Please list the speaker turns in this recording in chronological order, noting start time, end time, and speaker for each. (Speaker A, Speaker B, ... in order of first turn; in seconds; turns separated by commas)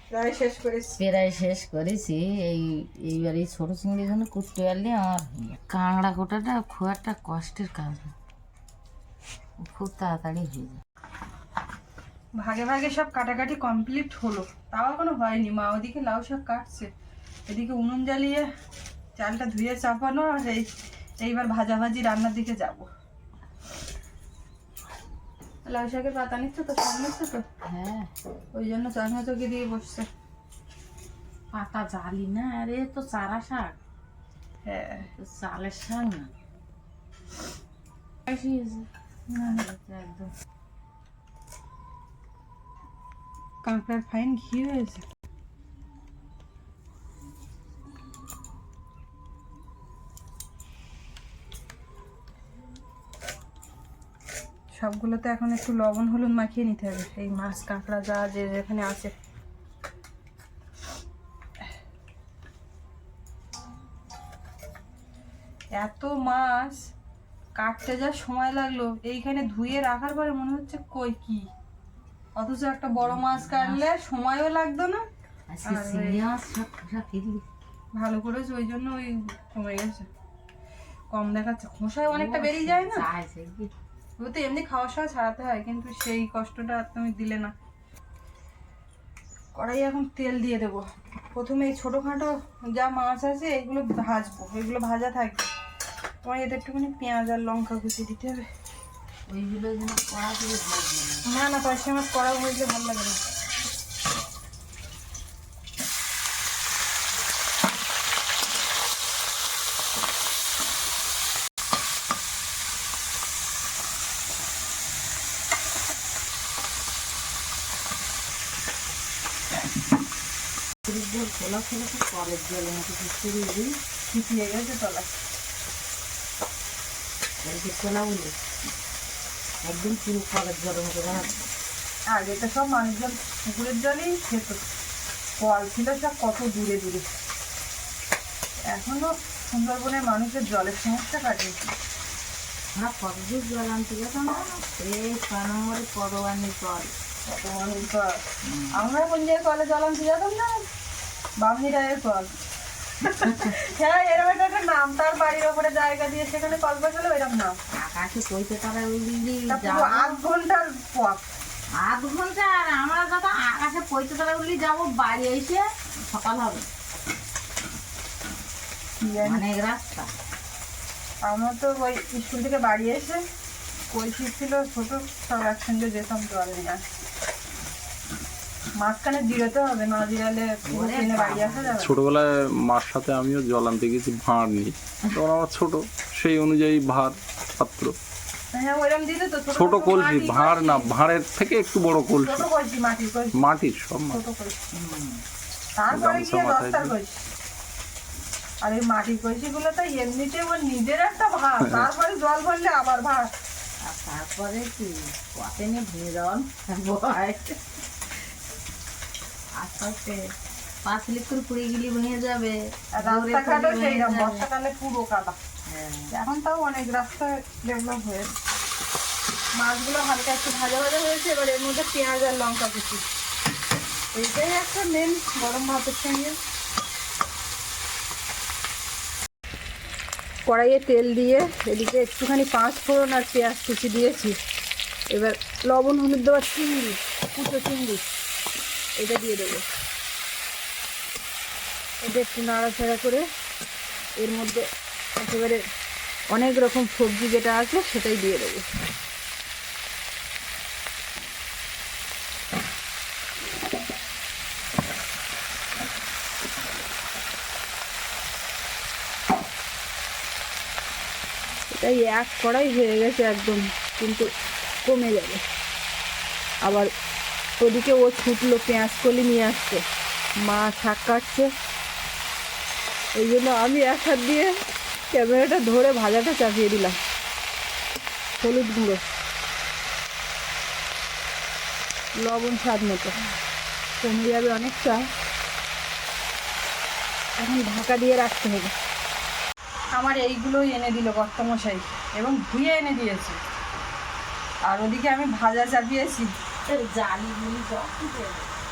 Speaker A: 0.1-1.0, Speaker B: 1.0-8.1, Speaker B: 9.6-10.8, Speaker A: 12.4-16.9, Speaker A: 17.5-18.5, Speaker A: 19.2-22.9, Speaker A: 25.6-27.4, Speaker B: 27.6-28.1, Speaker A: 28.5-30.1, Speaker B: 31.5-33.8, Speaker A: 34.6-35.1, Speaker B: 35.1-36.3, Speaker B: 38.3-40.3, Speaker A: 39.3-39.6, Speaker A: 43.6-45.0, Speaker A: 54.7-59.1, Speaker A: 65.7-66.9, Speaker A: 67.6-71.5, Speaker A: 72.4-75.0, Speaker B: 73.0-73.8, Speaker B: 75.5-77.4, Speaker A: 75.7-76.2, Speaker A: 78.0-80.1, Speaker A: 81.1-83.0, Speaker B: 82.1-83.7, Speaker A: 84.2-87.5, Speaker A: 89.5-95.5, Speaker A: 96.2-98.5, Speaker B: 99.3-101.2, Speaker A: 101.3-103.2, Speaker B: 120.8-123.8, Speaker A: 124.1-125.2, Speaker B: 127.4-128.3, Speaker B: 129.6-131.5, Speaker A: 132.1-134.6, Speaker A: 135.4-137.1, Speaker A: 138.6-141.6, Speaker B: 142.8-146.9, Speaker A: 147.3-148.2, Speaker B: 148.4-148.8, Speaker A: 148.7-150.7, Speaker A: 151.4-152.3, Speaker A: 153.0-157.6, Speaker B: 153.1-153.5, Speaker B: 157.7-160.2, Speaker A: 159.5-161.2, Speaker B: 161.8-166.7, Speaker A: 169.0-169.4, Speaker B: 169.2-170.1, Speaker A: 171.2-173.2, Speaker A: 173.9-176.8, Speaker A: 178.8-181.9, Speaker B: 180.7-181.8, Speaker C: 181.8-188.0, Speaker A: 188.5-190.9, Speaker C: 189.6-192.5, Speaker A: 192.2-193.4, Speaker C: 193.3-194.2, Speaker A: 194.1-194.6, Speaker B: 194.7-195.2, Speaker A: 195.8-197.2, Speaker C: 195.9-196.9, Speaker A: 198.6-203.3, Speaker C: 201.6-201.9, Speaker B: 203.8-207.6, Speaker B: 209.6-210.2, Speaker B: 210.8-214.5, Speaker A: 213.0-215.4, Speaker B: 215.7-216.1, Speaker A: 216.1-218.3, Speaker A: 219.6-223.0, Speaker A: 224.1-226.4, Speaker A: 230.5-234.4, Speaker A: 235.1-238.1, Speaker A: 239.0-239.7, Speaker A: 242.0-243.2, Speaker A: 244.2-245.6, Speaker A: 246.3-248.7, Speaker A: 261.8-264.3, Speaker A: 264.8-265.4, Speaker A: 266.6-266.9, Speaker A: 267.6-269.8, Speaker A: 270.4-271.5, Speaker A: 273.1-274.5, Speaker A: 275.1-277.0, Speaker A: 278.4-279.0, Speaker A: 282.2-283.2, Speaker A: 284.0-285.1, Speaker A: 287.4-288.7, Speaker A: 289.9-293.4, Speaker A: 294.7-296.3, Speaker B: 296.7-298.5